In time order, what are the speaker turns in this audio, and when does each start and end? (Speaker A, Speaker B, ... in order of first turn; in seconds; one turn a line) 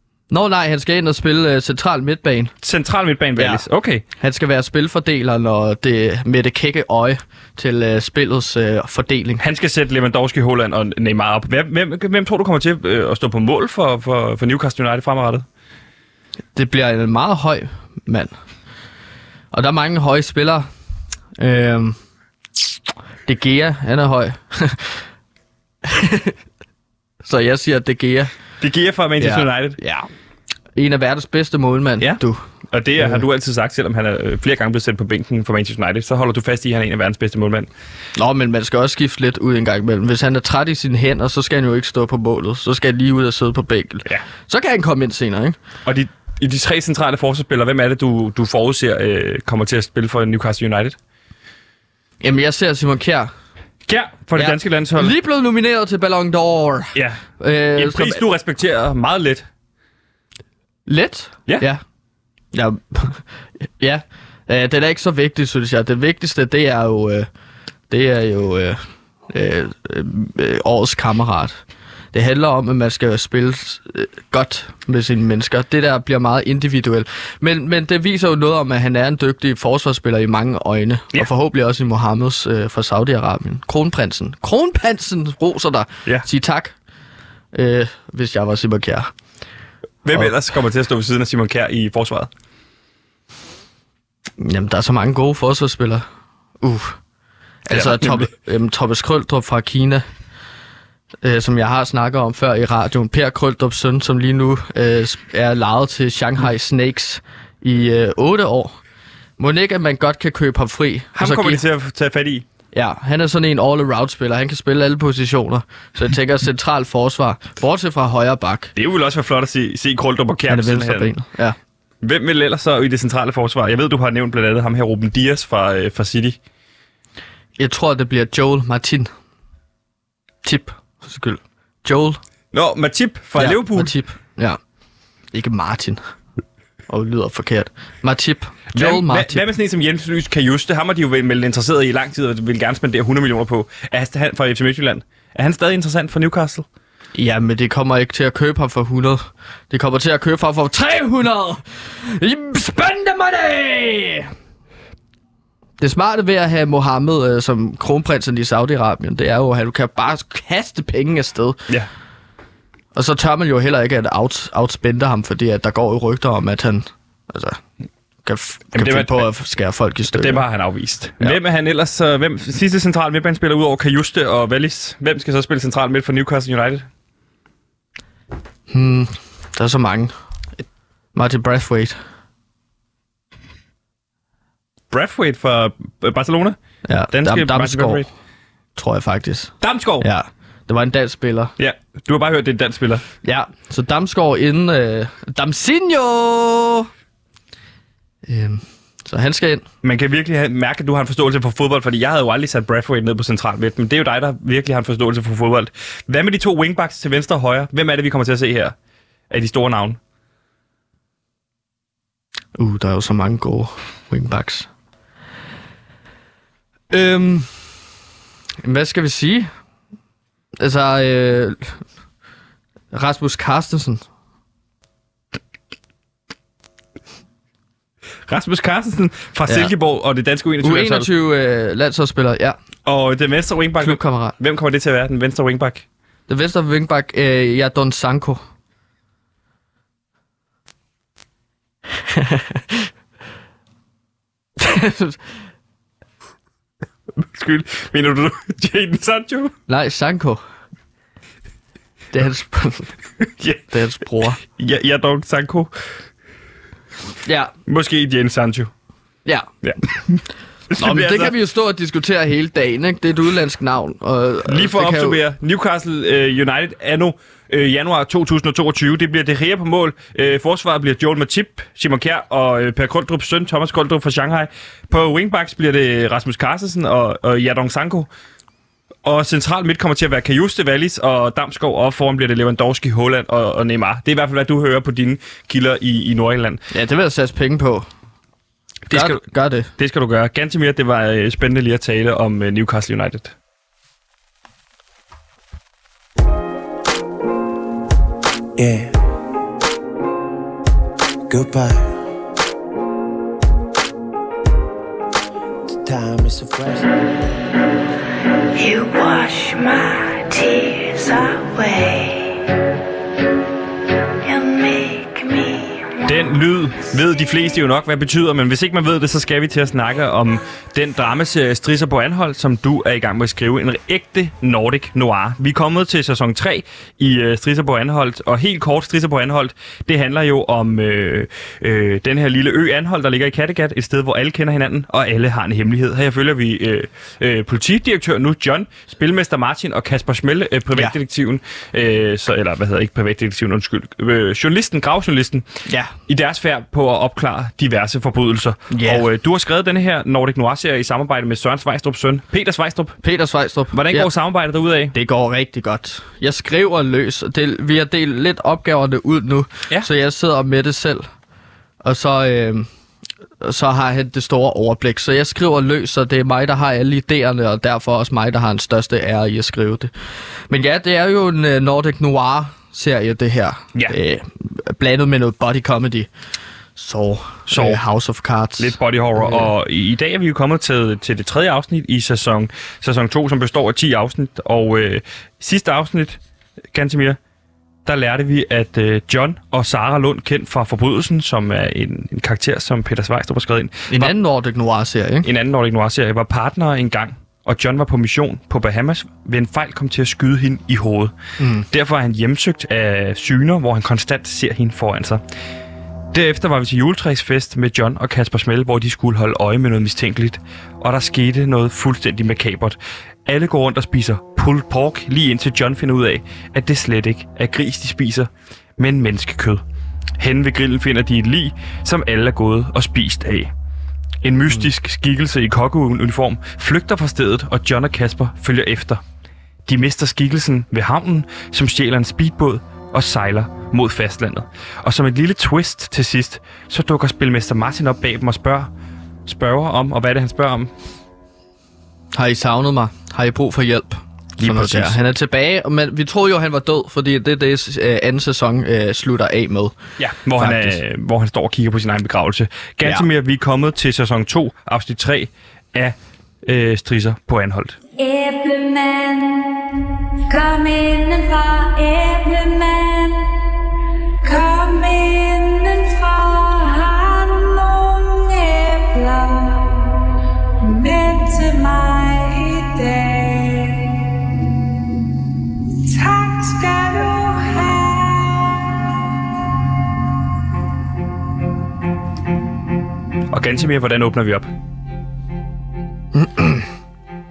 Speaker A: 0.3-2.5
Speaker B: 2.6-4.0
Speaker A: 3.4-3.6
Speaker A: 4.2-9.4
Speaker B: 9.4-15.4
Speaker A: 16.5-18.3
Speaker A: 19.5-20.7
Speaker A: 21.4-22.0
Speaker A: 23.2-25.0
Speaker A: 25.8-26.3
Speaker A: 27.2-28.3
Speaker B: 28.6-29.8
Speaker A: 29.2-30.1
Speaker A: 30.8-32.4
Speaker B: 32.0-37.7
Speaker A: 33.0-33.2
Speaker A: 38.1-45.6
Speaker B: 45.8-51.0
Speaker A: 52.2-53.3
Speaker B: 53.9-55.1
Speaker A: 54.3-58.2
Speaker B: 56.9-57.2
Speaker B: 57.7-59.5
Speaker A: 60.9-61.8
Speaker A: 62.5-67.3
Speaker A: 67.9-68.8
Speaker A: 69.3-71.6
Speaker A: 72.1-86.7
Speaker A: 87.5-89.1
Speaker B: 90.0-92.3
Speaker A: 94.4-96.0
Speaker A: 96.6-97.0
Speaker A: 97.7-100.0
Speaker B: 97.7-98.3
Speaker A: 101.2-108.8
Speaker A: 109.4-111.6
Speaker B: 111.2-112.4
Speaker A: 112.7-118.7
Speaker B: 118.8-121.1
Speaker A: 120.5-121.5
Speaker B: 122.0-126.4
Speaker A: 127.6-129.1
Speaker A: 130.4-132.2
Speaker B: 132.5-133.9
Speaker A: 133.4-134.6
Speaker A: 135.3-136.0
Speaker A: 136.9-139.4
Speaker B: 138.7-146.7
Speaker A: 147.1-154.3
Speaker A: 155.8-161.6
Speaker A: 162.9-167.6
Speaker A: 168.2-170.4
Speaker B: 168.7-169.3
Speaker B: 170.1-176.9
Speaker A: 178.7-180.1
Speaker A: 181.1-182.0
Speaker B: 184.9-186.6
Speaker A: 186.8-188.1
Speaker B: 187.1-188.1
Speaker A: 188.8-191.5
Speaker B: 189.6-190.1
Speaker B: 191.6-193.0
Speaker A: 193.2-196.9
Speaker A: 198.2-199.6
Speaker B: 199.8-208.7
Speaker B: 209.3-210.0
Speaker A: 212.5-214.7
Speaker A: 216.9-217.5
Speaker A: 218.6-219.5
Speaker A: 220.6-221.8
Speaker A: 222.9-224.0
Speaker B: 228.3-231.1
Speaker A: 229.5-229.7
Speaker A: 230.6-232.6
Speaker B: 232.8-235.8
Speaker A: 233.8-234.3
Speaker A: 236.3-238.4
Speaker A: 242.1-242.9
Speaker A: 244.6-245.2
Speaker B: 247.2-249.5
Speaker A: 249.7-250.4
Speaker A: 252.1-252.9
Speaker B: 253.2-253.6
Speaker A: 253.7-254.4
Speaker B: 254.4-255.7
Speaker A: 257.2-257.5
Speaker B: 257.6-258.7
Speaker A: 259.2-259.5
Speaker B: 259.6-261.3
Speaker A: 260.8-265.2
Speaker B: 264.4-278.1
Speaker B: 279.0-286.6
Speaker A: 286.7-287.9
Speaker B: 288.9-289.2
Speaker A: 288.9-289.7
Speaker B: 289.8-293.3
Speaker C: 298.6-298.9
Speaker C: 301.3-302.0
Speaker C: 305.7-306.9
Speaker D: 308.5-312.5
Speaker D: 314.2-316.3
Speaker B: 316.0-345.4
Speaker A: 345.6-345.9
Speaker B: 346.1-353.0
Speaker A: 348.7-349.1
Speaker A: 353.0-354.1
Speaker B: 353.7-354.9
Speaker A: 354.9-361.1
Speaker A: 361.8-362.7
Speaker A: 363.4-369.9
Speaker A: 370.5-376.1
Speaker A: 376.8-379.5
Speaker B: 377.5-377.8
Speaker B: 378.6-386.2
Speaker B: 386.7-387.2
Speaker B: 387.8-394.1
Speaker A: 393.9-395.3
Speaker B: 395.2-401.1
Speaker A: 401.4-401.6
Speaker B: 401.7-405.2
Speaker B: 406.1-419.6
Speaker B: 420.2-423.5
Speaker B: 424.2-429.0
Speaker B: 429.6-438.7
Speaker B: 439.2-440.7
Speaker A: 442.1-449.7
Speaker B: 444.4-445.0
Speaker B: 450.0-457.8
Speaker A: 450.4-450.8
Speaker E: 457.9-459.6
Speaker E: 460.3-463.3
Speaker E: 464.2-470.0
Speaker E: 470.6-474.1
Speaker E: 475.8-478.7
Speaker B: 483.3-484.5
Speaker A: 486.1-486.7